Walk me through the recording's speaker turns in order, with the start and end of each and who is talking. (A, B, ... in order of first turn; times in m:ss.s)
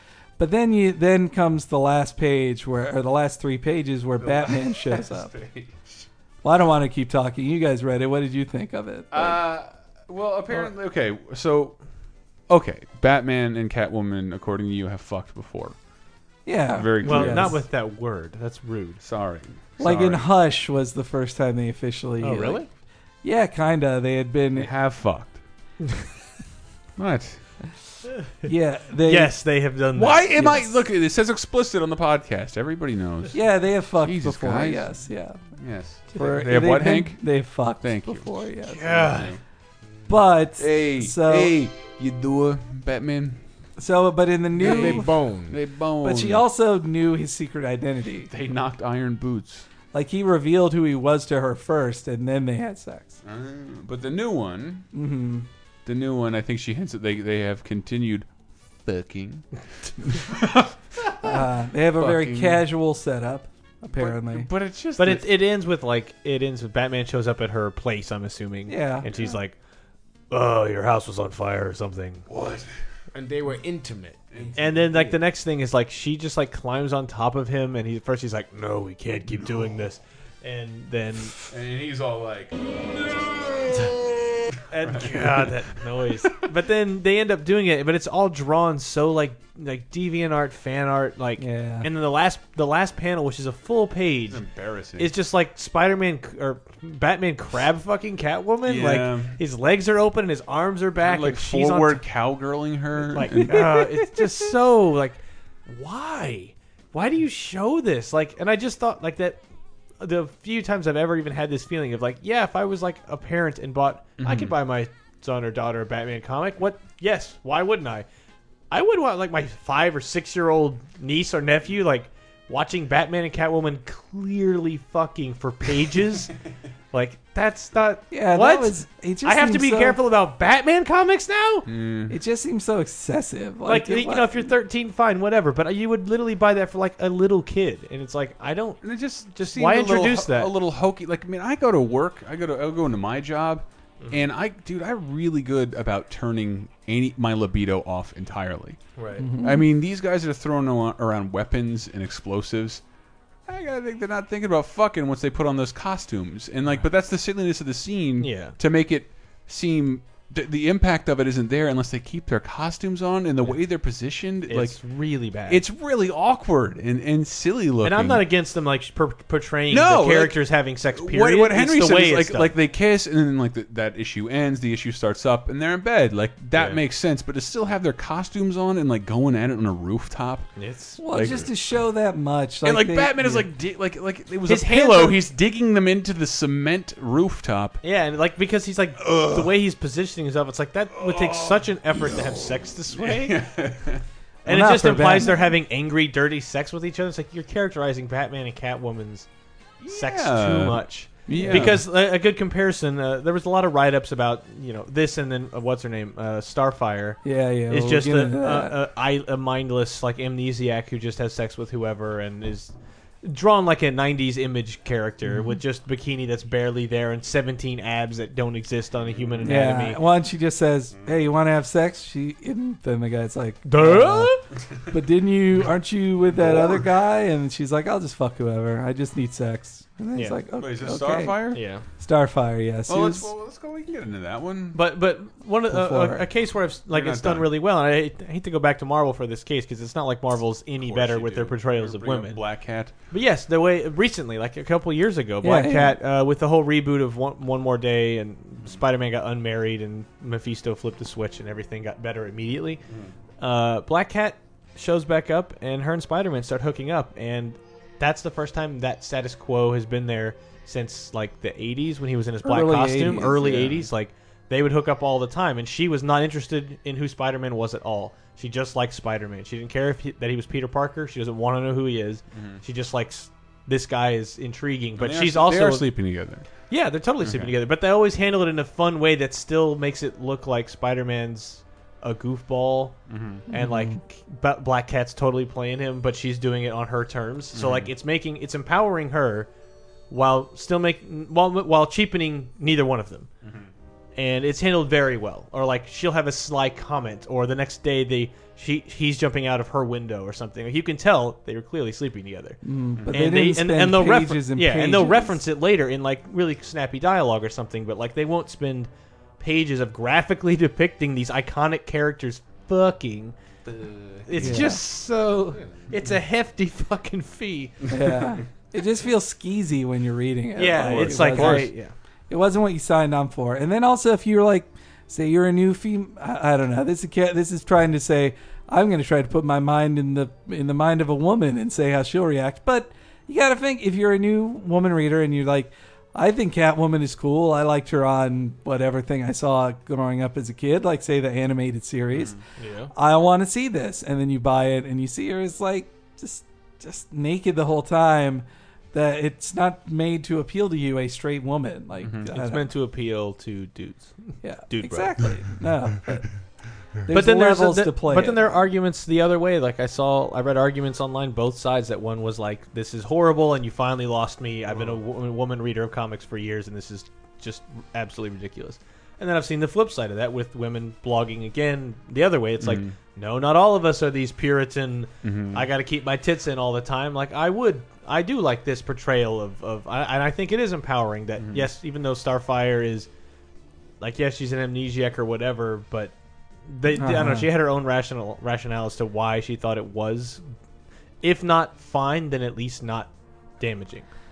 0:00.4-0:05.3 A
0:04.2-0:06.0 B
0:06.4-0:09.4 A
0:09.1-0:11.8 B
0:12.5-0:15.8 B
0:16.4-0:17.6 A
0:16.7-0:17.6 B
0:17.0-0:19.0 C
0:19.0-0:20.3 B
0:19.8-0:22.6 A
0:22.2-0:22.7 C
0:23.2-0:24.7 A
0:24.6-0:25.4 B
0:27.0-0:27.4 B
0:28.4-0:29.3 A
0:29.0-0:30.6 C
0:30.0-0:33.4 B
0:30.3-0:30.8 A
0:33.3-0:35.4 A
0:34.0-0:35.0 B
0:35.6-0:38.3 B
0:36.1-0:39.1 A
0:38.6-0:39.3 C
0:38.9-0:39.4 B
0:40.1-0:41.6 A
0:40.6-0:43.4 B
0:43.8-0:45.1 A
0:44.6-0:45.6 D
0:44.6-0:46.4 B
0:46.0-0:48.3 A
0:48.3-0:49.6 B
0:49.9-0:53.2 A
0:53.2-0:54.9 B
0:54.9-0:55.5 A
0:55.8-0:58.3 B
0:58.8-1:01.4 B
1:01.2-1:04.5 A
1:02.0-1:02.6 B
1:03.9-1:05.3 B
1:05.0-1:09.6 C
1:08.7-1:09.1 A
1:10.3-1:12.2 C
1:12.3-1:12.7 B
1:13.1-1:15.2 D
1:14.3-1:14.8 B
1:14.6-1:21.3 C
1:21.5-1:22.6 B
1:23.1-1:23.9 B
1:24.7-1:34.4 C
1:24.8-1:25.5 B
1:31.4-1:31.9 A
1:34.3-1:35.1 B
1:35.0-1:42.0 C
1:38.6-1:39.4 B
1:41.0-1:43.8 B
1:43.1-1:49.4 C
1:43.3-1:44.0 A
1:50.0-1:58.0 C
1:54.2-1:54.5 B
1:58.7-2:06.3 C
2:06.9-2:11.7 C
2:08.1-2:10.0 A
2:11.6-2:12.2 B
2:12.1-2:14.5 A
2:13.6-2:18.8 C
2:18.8-2:28.8 B
2:19.3-2:20.5 C
2:29.0-2:29.3 C
2:29.2-2:29.6 A
2:29.4-2:32.8 B
2:33.5-2:44.8 B
2:38.2-2:38.6 C
2:44.5-2:45.6 C
2:45.5-2:48.2 B
2:47.8-2:52.5 C
2:49.7-3:00.5 B
2:56.5-2:56.8 C
3:00.6-3:01.4 C
3:01.0-3:03.5 A
3:01.1-3:01.4 B
3:02.6-3:07.8 B
3:04.5-3:05.2 C
3:07.8-3:13.4 C
3:09.0-3:09.5 B
3:11.0-3:12.4 B
3:12.9-3:14.0 B
3:14.4-3:15.5 A
3:14.4-3:19.3 C
3:19.8-3:21.8 B
3:19.9-3:32.7 C
3:21.3-3:21.7 A
3:27.2-3:28.8 A
3:33.2-3:40.0 C
3:35.3-3:35.6 A
3:39.4-3:44.4 A
3:43.6-3:44.4 C
3:44.9-3:53.3 A
3:50.6-3:51.6 B
3:51.5-3:51.8 C
3:52.9-3:54.8 B
3:54.7-4:02.4 C
3:55.7-3:56.2 A
3:56.9-3:57.5 B
4:00.8-4:02.9 B
4:03.1-4:12.8 C
4:05.4-4:06.0 A
4:13.4-4:35.9 C
4:22.4-4:23.4 A
4:23.2-4:23.9 B
4:32.3-4:32.6 B
4:35.0-4:36.5 B
4:36.7-4:49.5 C
4:37.2-4:37.5 B
4:43.1-4:43.4 B
4:43.5-4:44.0 A
4:47.5-4:47.9 B
4:50.1-4:53.3 C
4:54.2-5:02.6 C
5:02.6-5:05.4 A
5:03.1-5:13.3 C
5:13.7-5:14.7 B
5:14.2-5:17.9 C
5:14.4-5:14.8 A
5:17.9-5:21.7 A
5:20.6-5:21.9 C
5:20.8-5:21.7 B
5:22.3-5:42.4 A
5:42.6-5:42.9 C
5:42.9-5:52.7 A
5:52.0-5:52.3 B
5:52.3-5:55.4 C
5:54.4-5:56.3 A
5:57.0-5:58.6 A
5:57.1-6:23.1 C
6:12.6-6:12.9 B
6:15.2-6:15.7 B
6:21.4-6:21.7 B
6:24.0-6:26.1 C
6:26.7-6:30.4 C
6:26.9-6:27.5 A
6:31.2-6:34.1 C